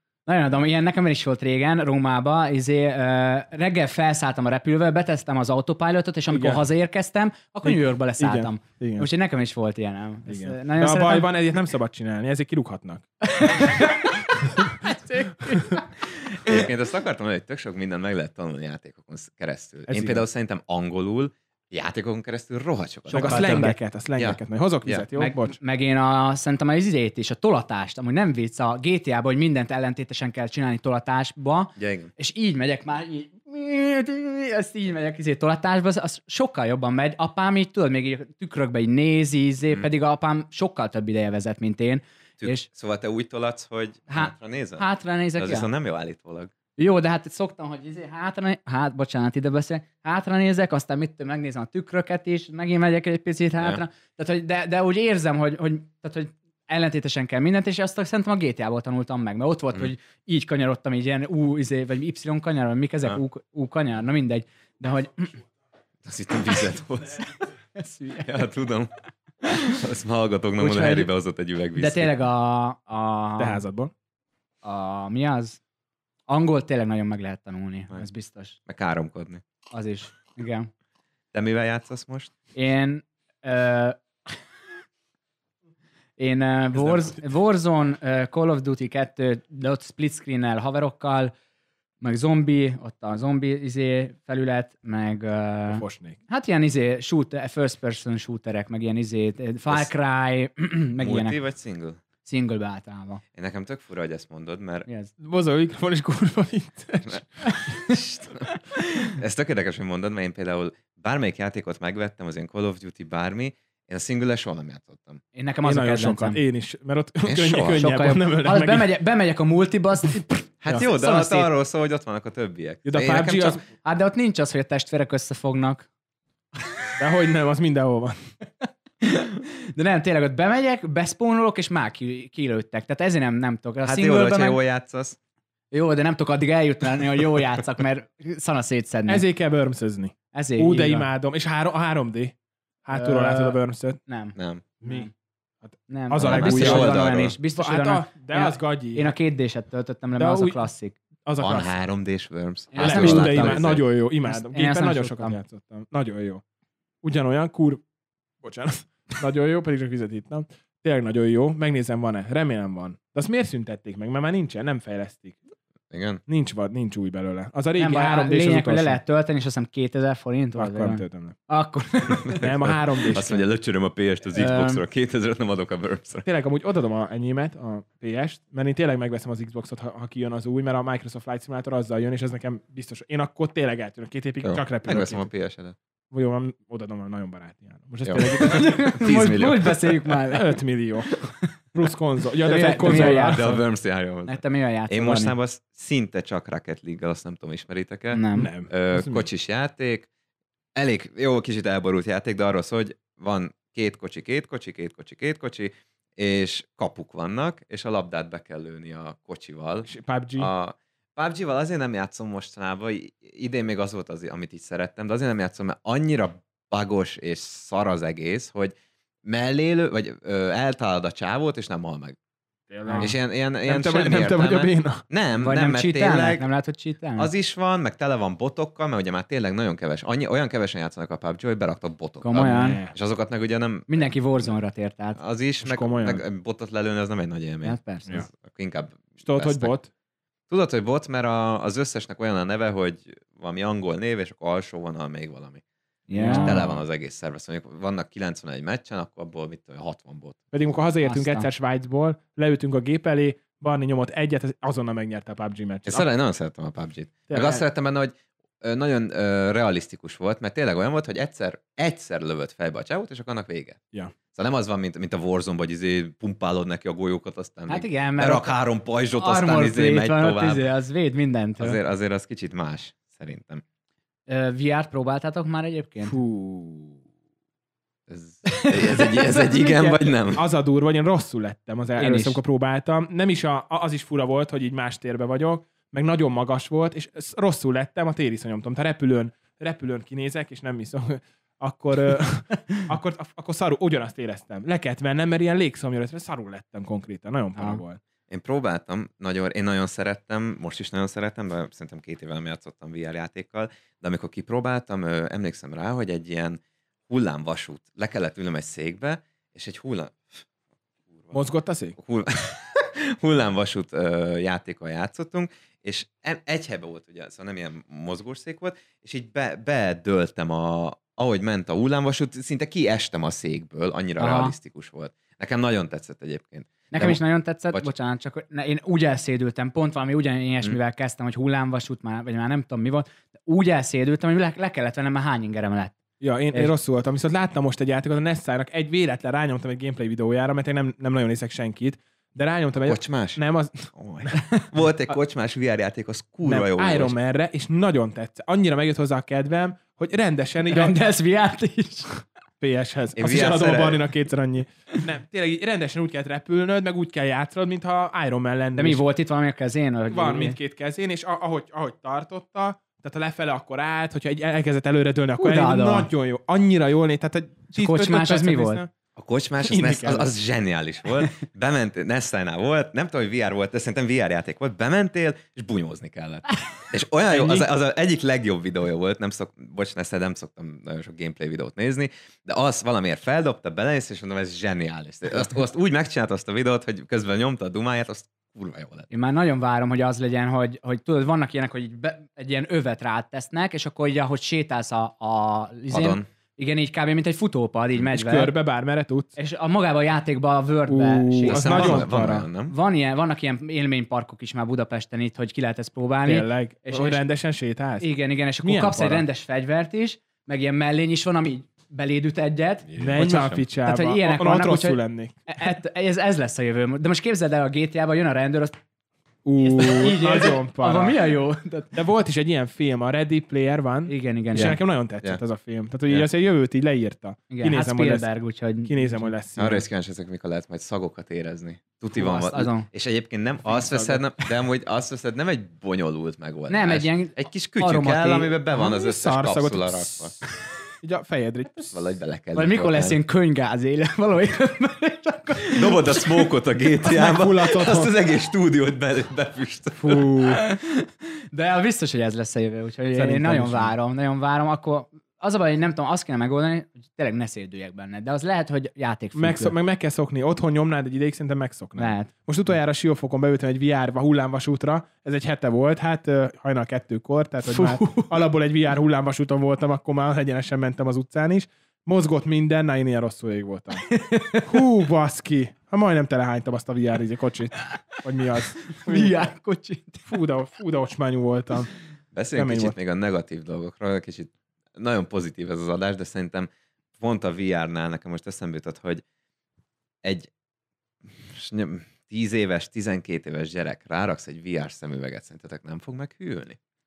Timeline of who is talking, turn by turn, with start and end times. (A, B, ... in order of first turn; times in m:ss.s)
0:00.2-0:11.3 A
0:06.3-0:06.6 B
0:07.6-0:09.1 B
0:10.3-0:13.1 B
0:13.2-0:15.9 A
0:15.4-0:15.8 B
0:16.3-0:25.1 C
0:19.9-0:20.2 B
0:23.1-0:23.8 A
0:23.1-0:25.6 B
0:25.2-0:42.6 A
0:31.8-0:32.1 C
0:42.4-0:46.5 C
0:44.1-0:45.7 A
0:46.8-1:05.4 A
1:06.0-1:07.4 C
1:07.7-1:08.4 A
1:08.2-1:08.9 C
1:09.4-1:12.2 C
1:09.5-1:09.8 A
1:10.6-1:11.1 A
1:11.8-1:13.6 A
1:13.4-1:13.9 B
1:14.6-1:15.6 A
1:16.3-1:18.6 A
1:18.7-1:19.4 C
1:19.7-1:20.7 A
1:21.3-1:22.3 C
1:22.5-1:24.0 A
1:26.2-1:31.3 A
1:32.0-1:41.4 A
1:35.7-1:36.2 B
1:41.0-1:42.0 C
1:42.2-1:43.2 A
1:43.4-1:44.9 C
1:44.9-1:45.1 A
1:45.2-1:47.5 B
1:47.1-1:55.2 C
1:47.4-1:48.0 A
1:55.4-1:56.4 A
1:55.6-1:58.9 B
1:57.2-1:57.9 C
1:57.7-2:01.5 A
2:00.6-2:03.6 C
2:02.8-2:03.6 B
2:03.8-2:05.9 A
2:07.0-2:08.2 B
2:09.0-2:14.6 A
2:13.8-2:15.2 C
2:15.7-2:19.2 A
2:19.1-2:24.0 B
2:20.3-2:21.1 A
2:22.9-2:25.1 A
2:24.4-2:24.6 C
2:24.8-2:25.1 B
2:25.7-2:27.0 B
2:25.9-2:31.0 A
2:26.2-2:27.4 C
2:27.6-2:29.1 B
2:30.2-2:30.6 B
2:31.2-2:31.7 B
2:31.4-2:33.8 C
2:32.7-2:33.6 A
2:32.8-2:36.4 B
2:34.2-2:35.4 A
2:37.0-2:37.8 B
2:38.4-2:45.4 B
2:45.9-2:46.2 C
2:46.3-2:49.0 B
2:47.8-2:52.4 A
2:50.5-2:51.4 B
2:52.2-2:56.2 C
2:52.4-2:53.4 B
2:54.3-2:54.8 A
2:56.2-3:05.3 B
3:04.4-3:05.8 C
3:06.1-3:08.9 B
3:08.0-3:10.1 C
3:08.4-3:10.6 A
3:10.3-3:11.2 B
3:11.7-3:13.6 B
3:12.4-3:13.5 A
3:12.7-3:20.1 C
3:14.2-3:15.3 A
3:18.1-3:18.5 A
3:18.4-3:19.2 B
3:20.7-3:38.7 C
3:29.9-3:30.5 B
3:39.2-3:42.2 C
3:42.7-3:45.0 B
3:42.8-3:43.1 A
3:43.0-3:46.4 C
3:45.4-3:47.3 A
3:47.2-3:54.5 C
3:52.2-3:52.8 A
3:52.4-3:52.9 B
3:53.9-3:55.2 A
3:55.2-3:59.7 C
3:55.6-3:56.2 B
3:57.6-3:58.2 A
3:59.2-3:59.9 B
4:00.5-4:05.6 C
4:06.1-4:06.6 A
4:06.1-4:06.8 B
4:06.3-4:10.4 C
4:10.5-4:16.0 B
4:11.0-4:11.5 A
4:15.9-4:23.8 C
4:17.3-4:17.6 B
4:24.3-4:30.6 C
4:27.7-4:28.5 A
4:29.1-4:31.8 A
4:31.6-4:33.6 C
4:34.3-4:36.2 A
4:36.0-4:37.0 B
4:38.1-4:40.4 C
4:38.5-4:40.0 A
4:40.4-4:58.0 B
4:42.0-4:42.4 A
4:57.6-4:57.8 A
4:58.3-5:10.4 C
5:11.3-5:12.0 B
5:12.0-5:27.2 C
5:24.2-5:24.5 A
5:26.9-5:35.9 A
5:36.2-5:44.3 B
5:42.8-5:43.4 C
5:43.9-5:47.1 C
5:46.4-5:51.0 B
5:50.7-5:52.2 A
5:52.6-5:59.0 B
5:53.2-5:54.0 C
5:58.7-6:00.6 A
6:00.1-6:08.9 B
6:05.4-6:06.1 A
6:07.7-6:08.8 A
6:09.2-6:29.1 C
6:09.6-6:10.3 B
6:17.3-6:17.7 B
6:29.1-6:38.5 A
6:35.9-6:36.2 C
6:38.1-6:39.4 B
6:39.4-6:42.1 A
6:40.9-6:42.5 B
6:41.4-6:42.7 C
6:42.7-6:47.2 A
6:46.2-6:48.1 B
6:48.0-6:52.9 A
6:48.6-6:49.2 B
6:52.9-6:53.6 C
6:53.0-6:55.7 B
6:53.8-6:58.8 A
6:59.4-7:01.2 B
6:59.6-7:01.9 A
7:01.9-7:08.3 B
7:04.1-7:04.8 A
7:04.5-7:05.4 C
7:07.5-7:09.3 A
7:08.8-7:09.8 B
7:09.6-7:20.4 C
7:12.1-7:12.9 A
7:13.7-7:14.2 B
7:16.7-7:18.5 A
7:18.7-7:20.4 B
7:21.0-7:22.0 B
7:21.9-7:23.2 C
7:22.5-7:26.5 A
7:25.6-7:30.2 C
7:27.0-7:28.1 B
7:30.0-7:30.6 B
7:30.4-7:39.7 A
7:33.1-7:33.9 B
7:39.3-7:54.0 B
7:42.0-7:42.3 A
7:47.6-7:48.4 A
7:54.1-7:54.7 A
7:54.6-7:59.5 B
7:58.9-8:00.3 A
8:00.3-8:01.9 B
8:02.3-8:09.2 C
8:02.5-8:03.0 B
8:10.2-8:10.5 C
8:11.3-8:16.8 C